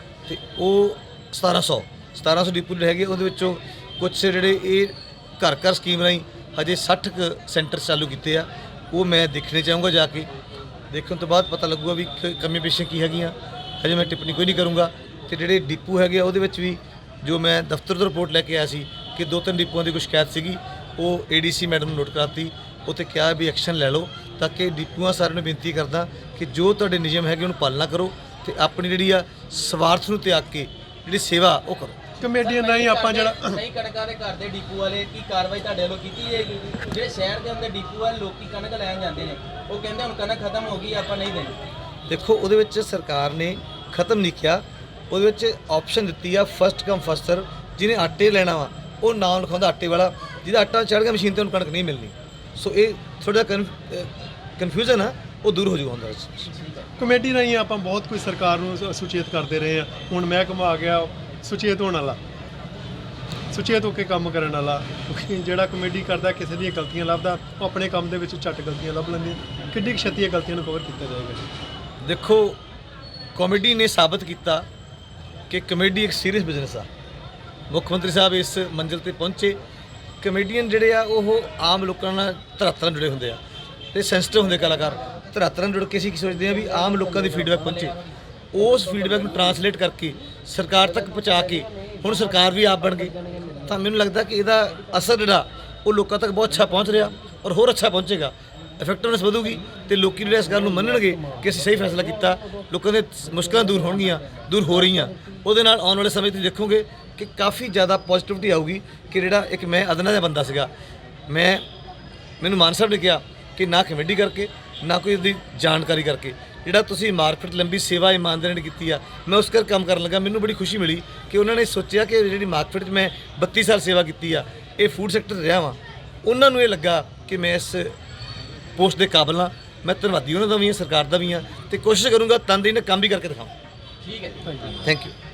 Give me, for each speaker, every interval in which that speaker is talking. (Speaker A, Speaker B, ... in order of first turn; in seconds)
Speaker A: 0.2-10.3, 10.9-32.0, 42.1-56.5, 72.0-72.6, 73.3-74.6, 75.5-76.9, 77.7-79.6, 80.2-83.4, 83.9-88.0, 88.5-110.7, 111.3-111.6, 112.4-127.9, 128.8-133.5, 134.8-135.1
Speaker B: 32.2-33.6, 57.0-62.2, 63.5-71.5, 134.5-134.8
Speaker C: 32.3-41.6, 134.0-134.6